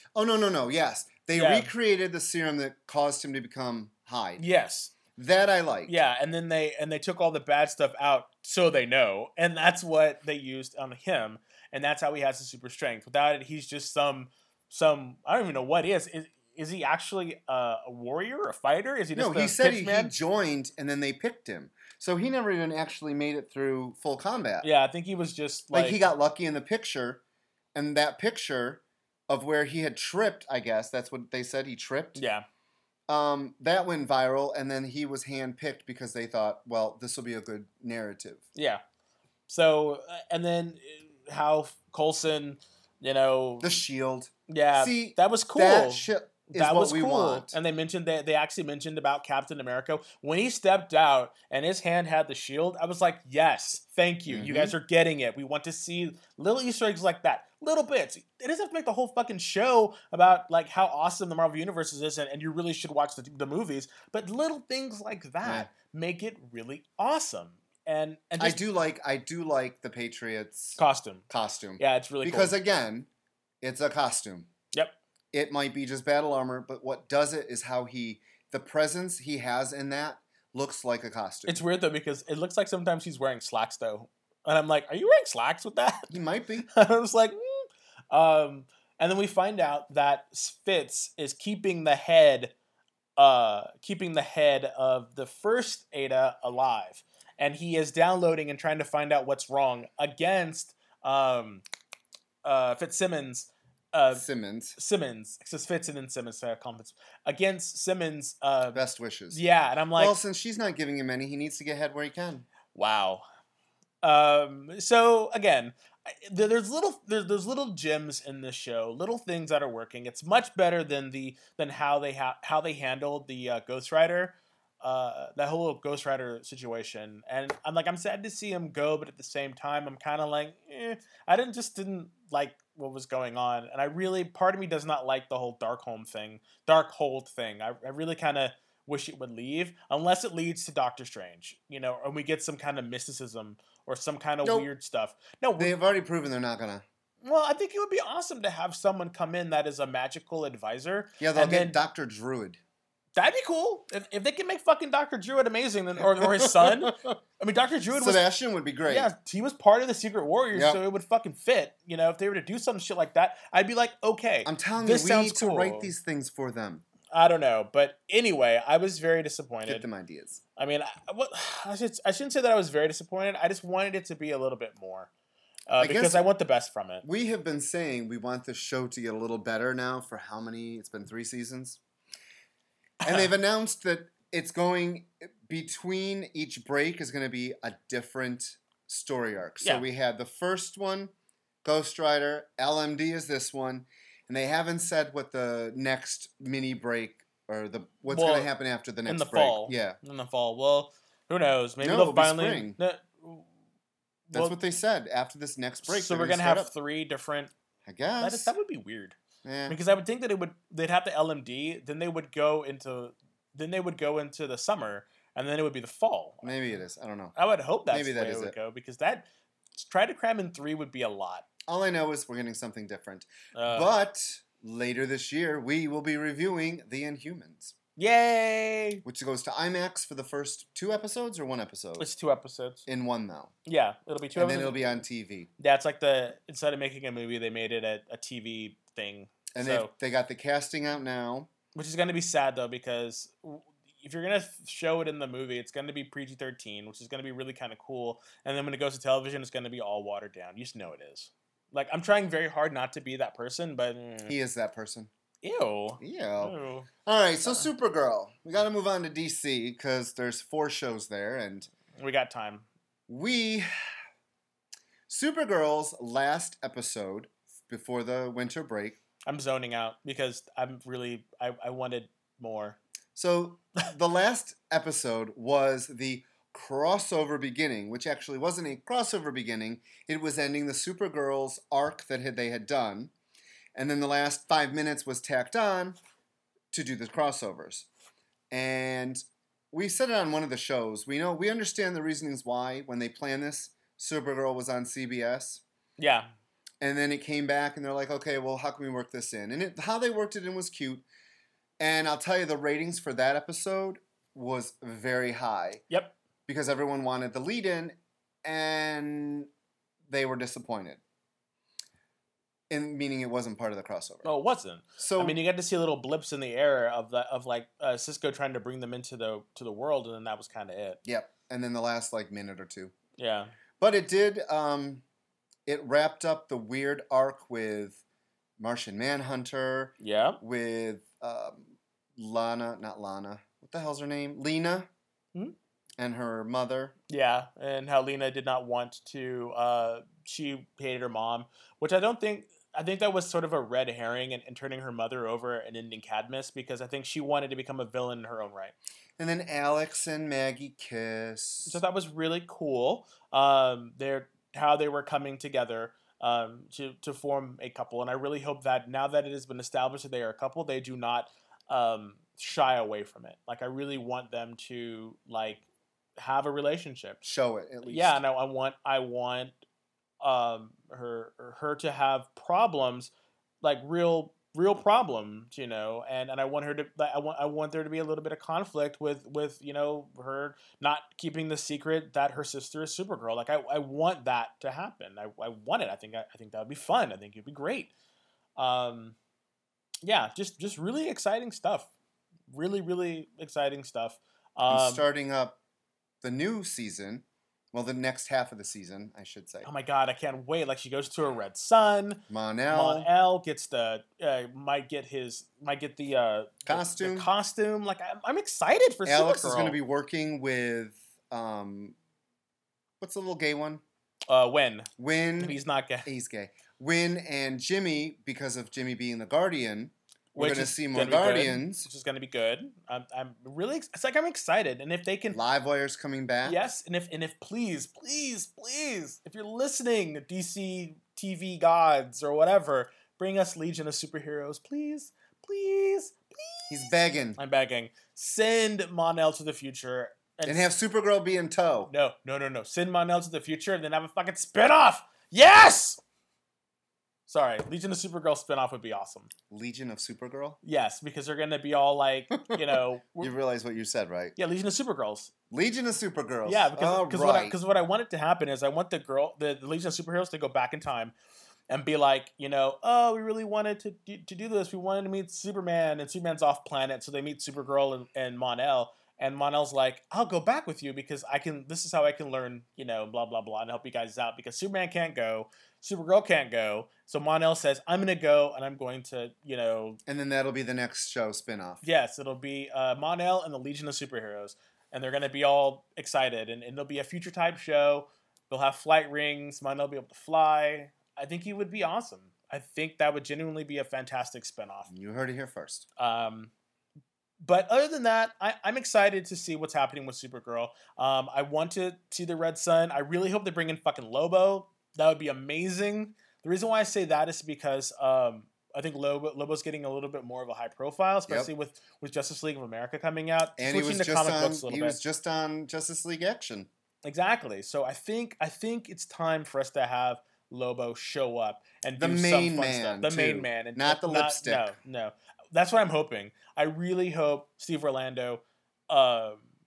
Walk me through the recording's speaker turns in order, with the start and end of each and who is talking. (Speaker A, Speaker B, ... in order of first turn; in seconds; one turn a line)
Speaker A: 0.1-4.4
Speaker B: 1.3-1.7
Speaker B: 4.4-5.0
Speaker A: 5.2-6.0
Speaker B: 5.9-20.1
Speaker A: 19.1-24.7
Speaker B: 24.6-26.1
Speaker A: 25.7-27.2
Speaker A: 27.8-32.2
Speaker B: 32.1-32.5
Speaker A: 33.1-38.4
Speaker B: 38.5-38.8
Speaker B: 39.5-43.7
Speaker A: 43.6-47.5
Speaker B: 44.5-68.6
Speaker A: 54.3-54.8
Speaker A: 65.4-65.7
Speaker A: 68.4-73.1
Speaker B: 70.8-71.3
Speaker B: 71.8-72.6
Speaker A: 73.6-74.5
Speaker A: 75.3-81.6
Speaker B: 81.5-86.1
Speaker A: 86.1-86.7
Speaker B: 86.7-92.5
Speaker B: 93.2-101.6
Speaker B: 102.4-104.2
Speaker A: 104.1-104.8
Speaker B: 104.8-110.2
Speaker A: 108.7-109.4
Speaker A: 110.0-112.5
Speaker B: 112.7-113.2
Speaker B: 114.0-145.8
Speaker A: 144.4-144.7
Speaker A: 145.6-146.8
Speaker B: 147.2-151.8
Speaker A: 151.2-152.6
Speaker B: 153.2-158.2
Speaker A: 156.0-157.0
Speaker A: 157.9-159.1
Speaker B: 158.9-165.9
Speaker A: 160.5-160.8
Speaker A: 164.4-166.8
Speaker B: 167.1-169.8
Speaker A: 169.7-170.4
Speaker B: 170.6-175.1
Speaker B: 175.7-177.1
Speaker A: 175.8-176.2
Speaker A: 177.0-181.8
Speaker B: 183.0-183.3
Speaker A: 183.0-191.1
Speaker A: 191.6-200.0
Speaker B: 198.1-198.5
Speaker B: 199.1-203.5
Speaker A: 201.8-202.8
Speaker B: 204.3-204.6
Speaker A: 204.3-206.7
Speaker B: 205.8-207.5
Speaker A: 207.9-208.5
Speaker B: 208.2-209.2
Speaker A: 209.4-209.8
Speaker B: 209.7-216.6
Speaker A: 216.4-217.3
Speaker B: 217.4-221.5
Speaker A: 217.9-218.6
Speaker A: 221.7-227.7
Speaker B: 223.6-223.9
Speaker B: 228.0-229.0
Speaker A: 229.1-232.1
Speaker B: 232.0-232.8
Speaker A: 232.9-233.5
Speaker B: 233.7-234.8
Speaker A: 234.3-235.5
Speaker B: 235.6-239.9
Speaker A: 239.6-241.5
Speaker B: 241.8-254.3
Speaker A: 254.3-255.1
Speaker B: 255.4-256.9
Speaker A: 256.0-256.6
Speaker A: 257.1-261.7
Speaker B: 262.0-262.7
Speaker A: 263.1-263.7
Speaker A: 265.1-269.0
Speaker B: 269.3-272.8
Speaker A: 273.2-283.1
Speaker A: 283.8-286.0
Speaker A: 286.7-287.9
Speaker A: 288.5-295.6
Speaker B: 296.0-296.3
Speaker A: 296.8-301.1
Speaker A: 301.8-305.8
Speaker B: 305.9-306.1
Speaker A: 306.5-309.5
Speaker A: 310.1-311.0
Speaker A: 312.7-314.3
Speaker B: 314.2-321.0
Speaker A: 315.0-315.4
Speaker A: 321.1-322.9
Speaker B: 323.2-323.5
Speaker A: 323.8-325.0
Speaker A: 325.7-328.0
Speaker A: 328.6-334.9
Speaker B: 330.0-330.4
Speaker A: 336.0-336.9
Speaker B: 337.1-348.7
Speaker A: 349.2-351.8
Speaker B: 351.7-365.6
Speaker B: 366.2-367.2
Speaker A: 367.2-368.2
Speaker B: 367.9-369.6
Speaker B: 370.2-373.1
Speaker B: 373.6-387.9
Speaker B: 388.6-389.2
Speaker B: 390.0-391.9
Speaker B: 392.5-395.1
Speaker A: 394.7-395.6
Speaker A: 396.2-399.7
Speaker B: 399.6-409.8
Speaker A: 402.3-403.1
Speaker A: 406.7-407.3
Speaker A: 409.1-412.0
Speaker A: 413.0-413.8
Speaker B: 414.3-416.1
Speaker A: 415.0-421.9
Speaker B: 420.4-425.4
Speaker A: 425.3-426.6
Speaker B: 426.4-440.7
Speaker A: 436.7-437.4
Speaker A: 440.5-441.9
Speaker B: 441.9-446.0
Speaker B: 447.3-449.3
Speaker A: 449.5-450.6
Speaker B: 450.6-453.3
Speaker A: 453.2-454.4
Speaker B: 454.4-455.3
Speaker A: 455.5-457.6
Speaker B: 456.4-461.1
Speaker B: 461.7-480.0
Speaker A: 480.1-481.8
Speaker B: 481.8-494.9
Speaker A: 494.9-495.9
Speaker B: 496.0-496.5
Speaker B: 497.4-515.0
Speaker A: 513.6-516.7
Speaker B: 517.0-529.4
Speaker A: 522.0-524.7